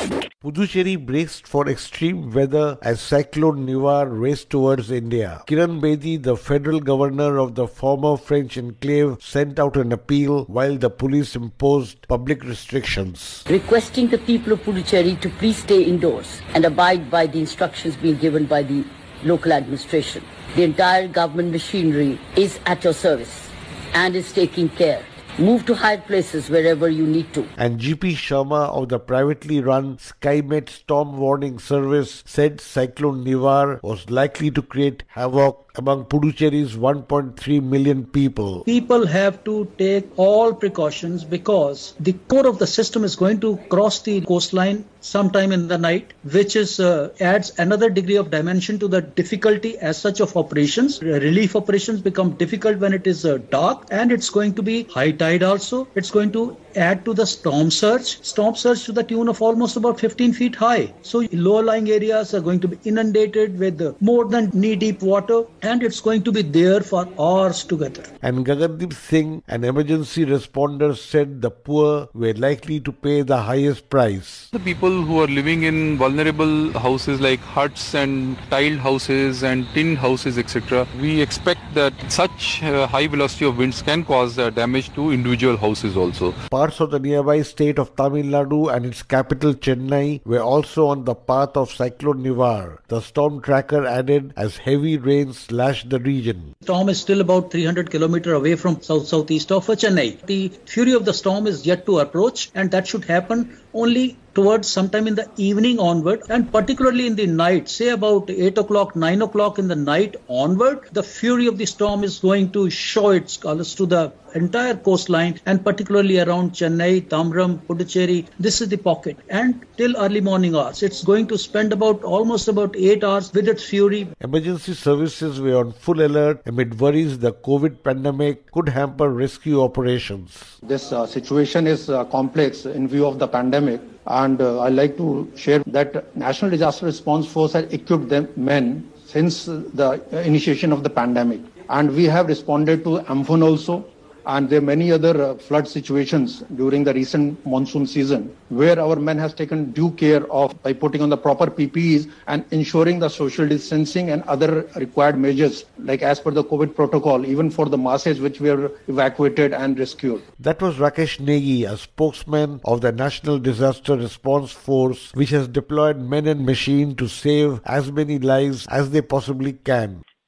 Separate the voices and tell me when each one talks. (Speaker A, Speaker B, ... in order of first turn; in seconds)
Speaker A: 0.4-13.4, 27.6-38.7, 68.2-74.5, 86.5-96.5, 124.2-130.6, 160.4-170.0
Speaker B: 13.5-27.5
Speaker C: 38.7-68.1, 96.6-124.1
Speaker D: 74.5-86.4
Speaker E: 130.6-160.2